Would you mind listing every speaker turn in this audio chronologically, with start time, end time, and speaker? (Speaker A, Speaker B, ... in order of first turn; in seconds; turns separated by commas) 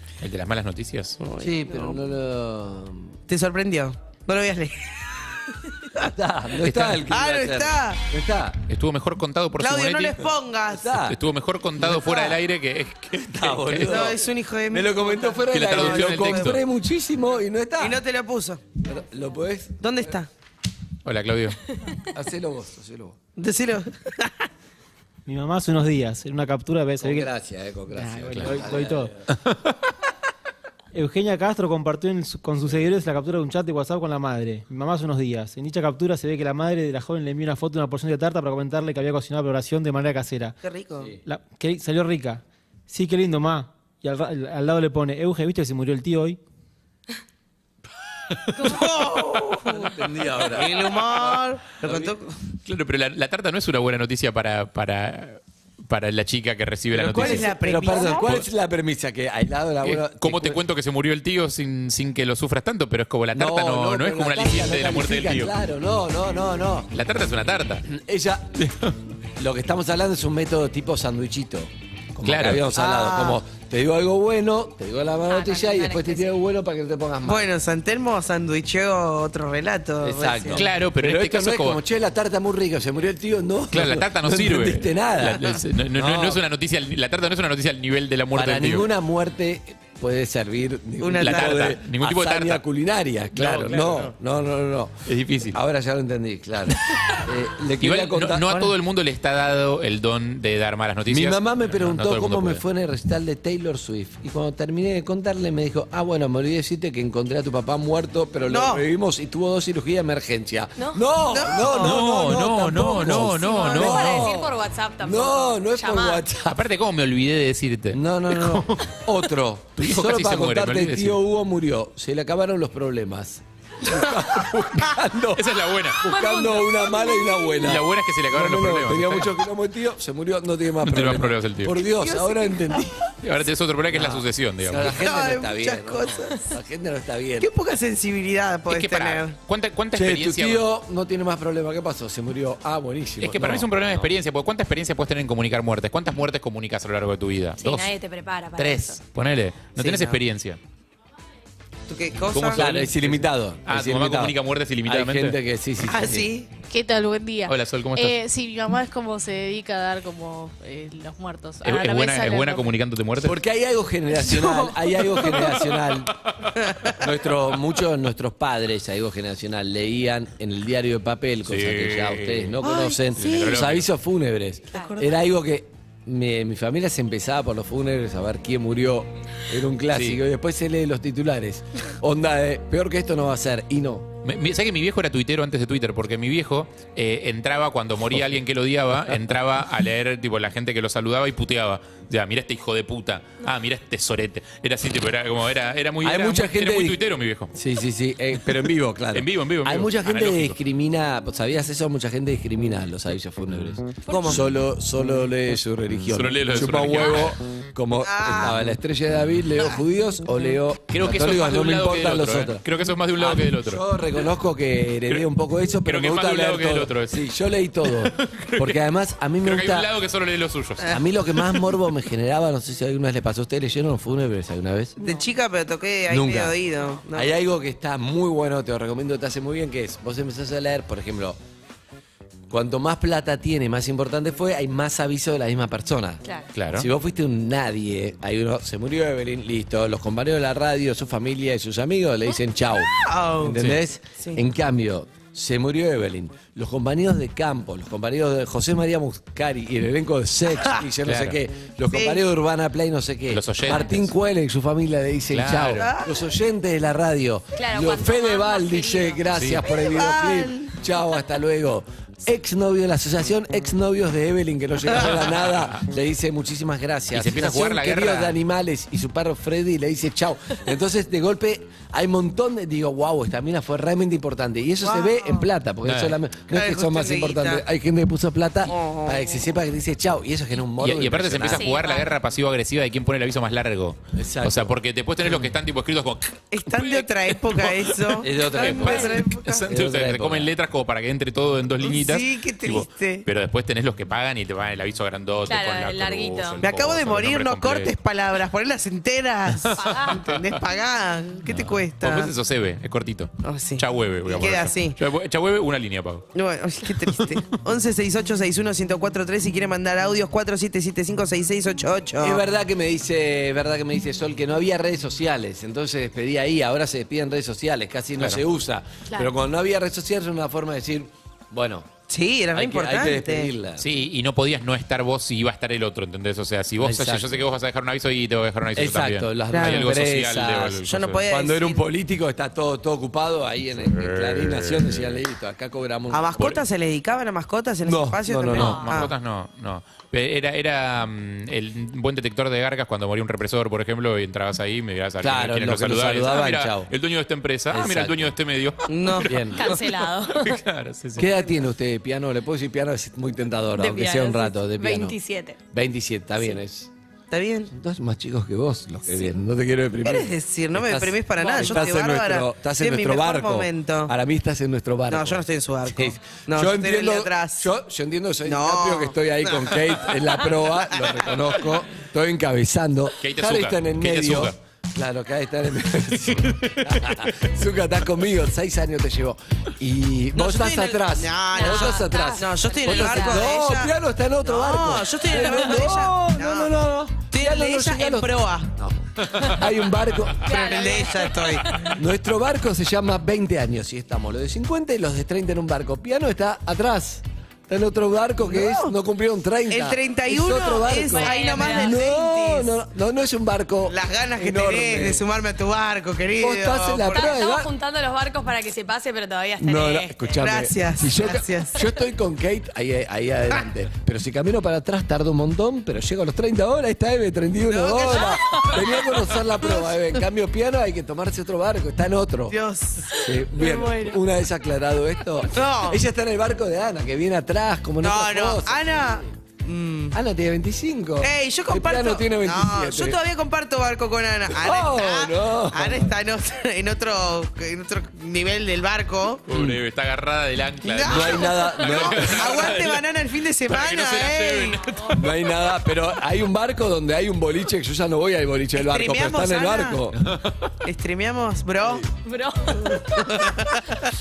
Speaker A: 0.2-1.2, Speaker B: 1.2-2.0, Speaker C: 1.4-3.2, Speaker B: 3.3-6.0, Speaker C: 6.0-8.6, Speaker A: 6.6-7.0, Speaker B: 7.1-8.0, Speaker A: 8.7-10.3, Speaker B: 9.6-10.9, Speaker C: 10.7-11.2, Speaker A: 10.9-14.1, Speaker B: 11.9-12.3, Speaker C: 13.2-18.0, Speaker B: 13.9-16.6, Speaker A: 15.5-16.6, Speaker B: 17.8-18.6, Speaker C: 18.8-19.8, Speaker B: 19.8-20.3, Speaker A: 21.1-21.6, Speaker C: 22.1-23.2, Speaker B: 23.4-24.3, Speaker D: 25.3-27.3, Speaker C: 27.0-29.2, Speaker D: 28.0-29.1, Speaker D: 30.9-40.6, Speaker B: 40.6-41.1, Speaker D: 41.2-46.4, Speaker B: 48.5-52.4, Speaker C: 49.6-52.1, Speaker A: 52.6-57.5, Speaker C: 56.9-60.6, Speaker B: 57.1-58.3, Speaker A: 58.1-58.5, Speaker A: 59.8-65.5, Speaker C: 63.3-66.9, Speaker A: 66.9-67.9, Speaker C: 67.9-68.6, Speaker A: 68.6-68.9, Speaker C: 69.4-77.5, Speaker A: 72.2-72.7, Speaker B: 72.7-73.4, Speaker E: 75.3-76.3, Speaker B: 77.2-80.6, Speaker C: 80.0-86.4, Speaker A: 80.5-81.8, Speaker A: 83.7-88.9, Speaker C: 88.3-98.7, Speaker B: 91.0-91.8, Speaker A: 91.2-92.6, Speaker A: 93.3-94.2, Speaker A: 95.1-95.6, Speaker A: 97.8-102.6, Speaker C: 101.1-116.6, Speaker B: 108.5-108.8, Speaker E: 110.8-111.0, Speaker B: 111.3-112.0, Speaker A: 111.6-114.3, Speaker E: 113.3-116.2, Speaker A: 116.5-119.0, Speaker C: 117.9-133.1, Speaker A: 119.8-121.2, Speaker A: 125.3-126.0, Speaker E: 126.1-127.4, Speaker A: 127.6-129.3, Speaker A: 130.8-131.8, Speaker B: 132.0-132.6, Speaker A: 133.2-135.0, Speaker C: 133.9-137.5, Speaker B: 134.9-136.4, Speaker B: 137.4-139.3, Speaker A: 138.7-140.7, Speaker C: 139.9-144.1, Speaker A: 143.2-147.9, Speaker E: 147.6-149.0, Speaker A: 148.6-150.6, Speaker B: 149.8-150.2, Speaker B: 151.9-152.6, Speaker A: 152.3-155.4, Speaker C: 152.5-154.3, Speaker C: 154.9-156.3, Speaker B: 155.9-156.5, Speaker F: 156.7-162.7, Speaker A: 157.5-158.2, Speaker A: 161.6-163.4, Speaker C: 163.2-166.1, Speaker C: 167.0-184.1, Speaker A: 171.5-172.6, Speaker B: 172.6-173.4, Speaker A: 173.2-173.9, Speaker B: 174.7-175.1, Speaker A: 179.9-180.2, Speaker A: 184.2-197.5, Speaker C: 196.0-197.0, Speaker C: 197.5-212.7, Speaker A: 199.1-200.6, Speaker B: 204.1-204.4, Speaker A: 206.1-207.4, Speaker B: 208.0-208.6, Speaker A: 210.9-213.8, Speaker C: 213.2-219.9, Speaker A: 215.8-217.3, Speaker A: 217.8-218.8, Speaker A: 219.4-221.6, Speaker C: 220.8-225.0, Speaker B: 225.0-227.3, Speaker C: 226.1-226.6, Speaker C: 227.1-231.4, Speaker C: 232.5-236.2, Speaker A: 236.6-236.9, Speaker C: 236.7-281.8, Speaker B: 243.0-243.6, Speaker A: 251.1-251.4, Speaker B: 251.9-252.3, Speaker A: 253.3-254.1, Speaker A: 255.3-255.9, Speaker B: 255.8-256.1, Speaker E: 257.6-259.3, Speaker A: 259.3-259.6, Speaker B: 259.8-260.7, Speaker A: 265.0-265.8, Speaker A: 267.1-268.4, Speaker B: 274.8-275.4, Speaker A: 275.9-276.2, Speaker B: 276.5-277.6, Speaker B: 278.7-279.4, Speaker A: 280.8-297.9, Speaker E: 281.4-282.1, Speaker C: 284.1-285.6, Speaker B: 286.5-289.7, Speaker C: 288.2-290.5, Speaker E: 288.8-289.1, Speaker B: 291.8-293.3, Speaker E: 295.5-296.6, Speaker B: 296.6-302.3, Speaker A: 299.7-300.4, Speaker E: 299.8-300.2, Speaker A: 301.5-306.3, Speaker B: 303.4-305.0, Speaker B: 306.4-312.4, Speaker C: 312.2-321.9, Speaker B: 322.1-323.5, Speaker C: 322.5-323.9, Speaker A: 323.8-331.2, Speaker C: 326.8-327.4, Speaker C: 328.7-336.6, Speaker B: 329.5-329.8, Speaker B: 330.9-331.8, Speaker A: 333.9-335.2, Speaker B: 336.1-339.1, Speaker C: 337.8-339.0, Speaker A: 338.5-349.4, Speaker C: 345.2-346.9, Speaker C: 347.7-348.3, Speaker B: 348.9-349.8, Speaker C: 349.2-349.8, Speaker E: 349.6-350.6, Speaker A: 350.3-351.3, Speaker C: 351.2-355.2, Speaker E: 353.8-355.6, Speaker C: 355.7-356.9, Speaker B: 357.3-357.7, Speaker C: 357.7-390.5, Speaker B: 360.0-364.1, Speaker B: 365.1-367.7, Speaker B: 368.5-371.2, Speaker A: 373.2-374.6, Speaker A: 376.4-377.3, Speaker B: 380.4-383.9, Speaker E: 381.5-383.6, Speaker B: 384.4-386.8, Speaker B: 387.3-388.7, Speaker E: 390.4-391.4, Speaker B: 390.5-391.8, Speaker C: 391.9-405.2, Speaker B: 398.4-398.9, Speaker B: 399.7-402.7, Speaker E: 401.1-402.0, Speaker B: 403.9-407.4, Speaker C: 406.4-407.7, Speaker E: 407.1-410.3, Speaker C: 409.6-422.6, Speaker B: 410.4-411.9, Speaker B: 417.7-418.7, Speaker B: 419.6-419.9, Speaker B: 422.5-423.9, Speaker C: 423.1-428.9, Speaker E: 423.6-424.1, Speaker B: 425.5-426.0, Speaker B: 428.0-430.2, Speaker C: 430.1-433.2, Speaker B: 431.2-439.4, Speaker C: 434.5-436.1, Speaker A: 439.5-443.0, Speaker C: 439.5-439.8, Speaker B: 440.8-444.8, Speaker C: 441.1-442.8, Speaker A: 443.7-445.3, Speaker C: 445.1-450.2, Speaker B: 448.8-450.0, Speaker B: 450.8-452.1, Speaker E: 452.2-453.0, Speaker B: 452.9-454.0